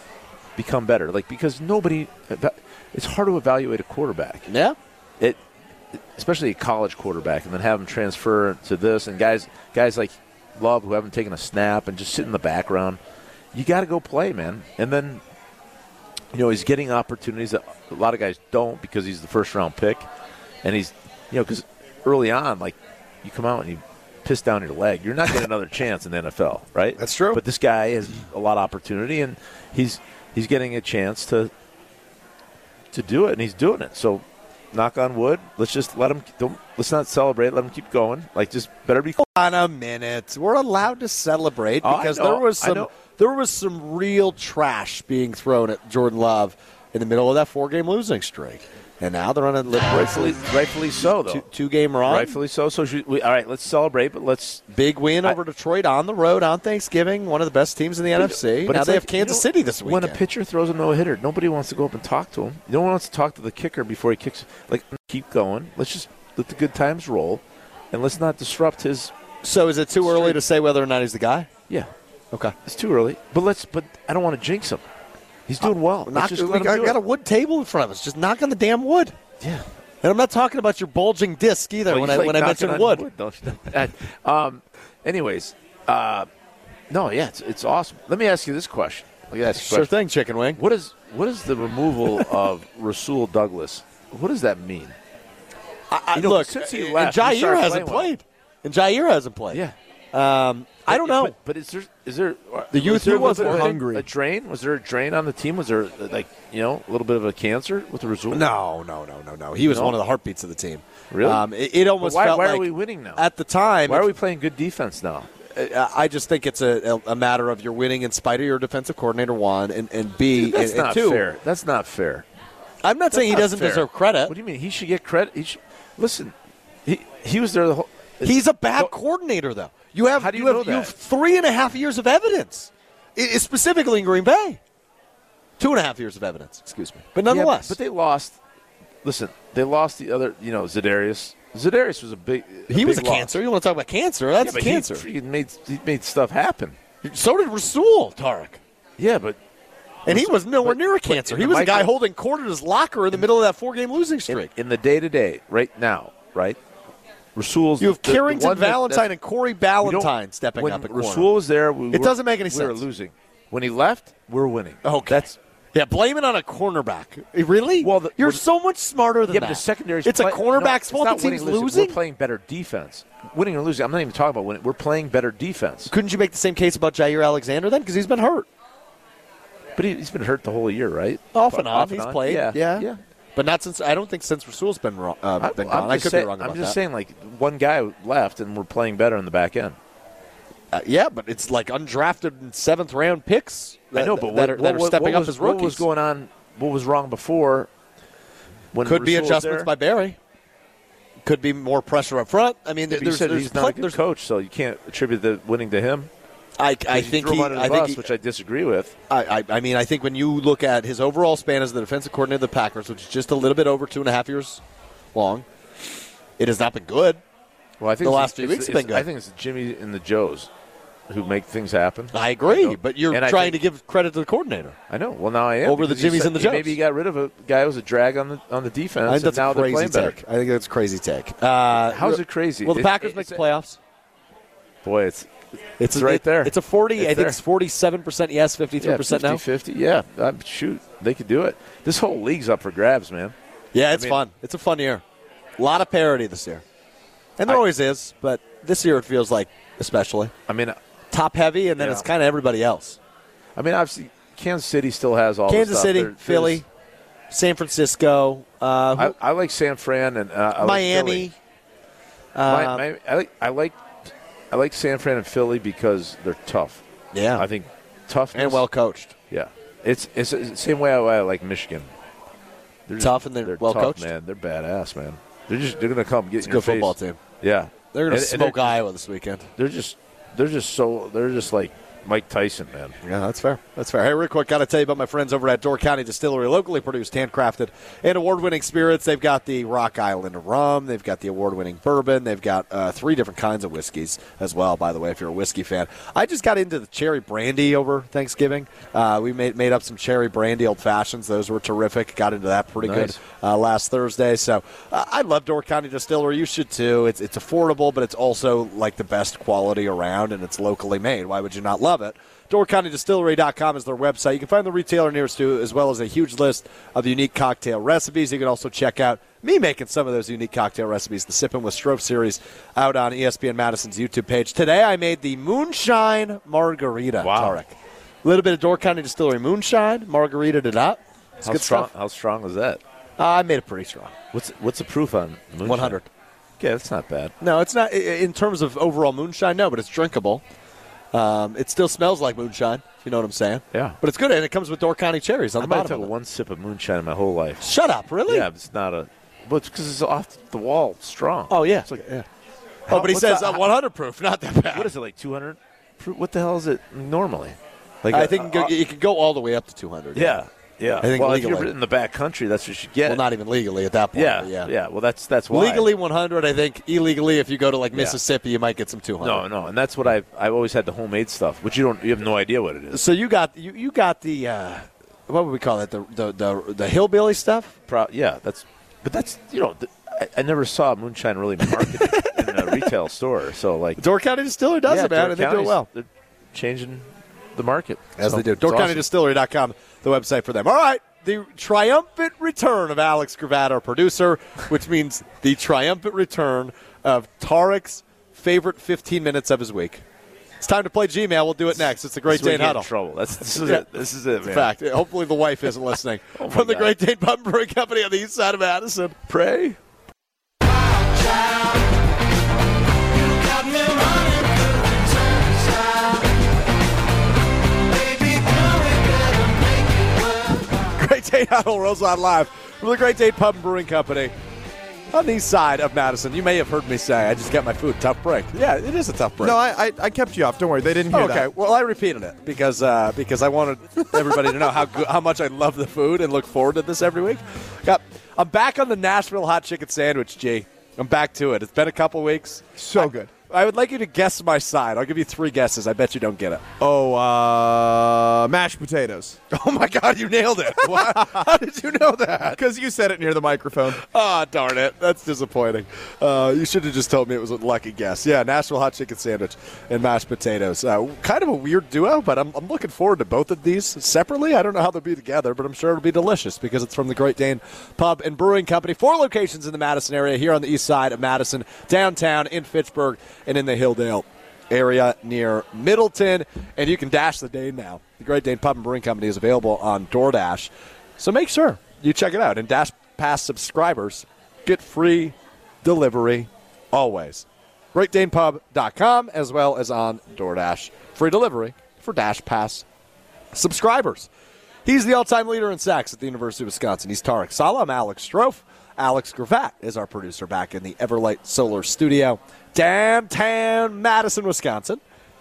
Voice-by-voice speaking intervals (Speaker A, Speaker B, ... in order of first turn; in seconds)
Speaker A: 0.6-4.5, 6.1-13.0, 13.5-15.2, 16.3-20.0, 20.6-31.5, 32.9-39.2, 41.8-42.9, 49.7-51.4, 52.0-54.6, 58.1-69.1, 70.0-70.4, 72.6-74.8, 75.5-77.0, 81.9-86.3, 86.9-89.9, 90.5-94.9, 96.1-98.1, 100.9-108.5, 109.6-110.0, 111.1-111.5, 112.0-113.2, 113.9-115.3, 120.3-122.2, 123.1-126.3, 126.8-128.9, 130.2-130.9, 137.3-138.3, 139.0-143.3, 144.4-146.8, 149.0-149.4, 150.1-151.9, 154.3-156.6, 157.3-159.1, 159.8-165.3, 167.8-168.4, 169.3-175.9, 179.8-183.0, 185.4-189.8, 193.9-197.7, 198.7-199.7, 202.9-206.1, 206.9-208.9, 217.8-220.5, 221.1-223.6, 224.9-230.2, 231.8-233.4, 234.8-235.3, 235.9-237.4, 238.8-243.3, 243.9-244.2, 250.5-250.8, 251.8-252.1, 253.6-256.6, 259.0-261.3, 262.4-266.8, 267.4-268.6, 269.3-271.9, 272.9-278.8, 279.6-282.9, 302.8-303.2, 327.2-327.6, 331.4-332.8, 334.3-336.0, 336.6-337.3, 345.6-347.7, 348.2-352.0, 352.9-353.7, 354.7-358.7, 360.1-363.2, 364.1-365.9, 367.9-368.2, 369.2-373.0, 377.9-384.0, 384.9-389.1, 402.3-404.7, 406.3-406.9, 409.3-409.8
Speaker B: 4.5-4.8, 27.0-27.4, 39.2-50.4, 51.0-52.3, 54.7-60.2, 69.4-71.5, 75.6-79.2, 80.0-83.0, 89.5-90.6, 95.9-99.6, 100.1-101.3, 102.7-103.8, 108.3-114.1, 115.5-121.2, 122.8-124.3, 128.2-134.6, 135.6-137.8, 142.7-145.1, 147.0-148.6, 150.1-154.5, 157.8-161.3, 161.9-162.8, 164.8-172.0, 175.9-178.5, 181.3-186.8, 190.7-195.8, 198.8-200.2, 201.2-204.0, 206.6-208.0, 209.1-214.6, 215.1-215.4, 216.4-217.2, 218.0-219.1, 222.1-224.8, 225.6-226.7, 229.1-233.8, 235.8-239.4, 243.7-245.0, 245.6-246.6, 247.4-250.3, 251.1-253.0, 255.5-256.6, 257.3-259.1, 260.6-261.3, 262.3-262.8, 267.1-267.4, 268.3-269.1, 273.0-274.1, 276.4-277.2, 277.9-279.4, 283.0-331.9, 333.2-334.1, 335.6-336.1, 337.4-340.4, 341.1-346.1, 347.6-348.4, 351.5-352.2, 352.9-354.9, 358.1-360.4, 361.0-361.7, 363.1-364.7, 365.5-369.4, 372.9-377.7, 381.7-382.9, 384.0-385.9, 388.2-400.0, 400.6-402.9, 403.5-403.9, 404.4-409.1, 420.9-424.3, 425.1-429.6, 431.1-446.6, 449.5-452.6, 453.9-492.8, 493.5-494.3, 494.8-505.0
Speaker C: 102.9-104.0, 429.4-431.5, 442.8-443.3, 446.8-449.4, 450.8-451.5, 452.6-454.0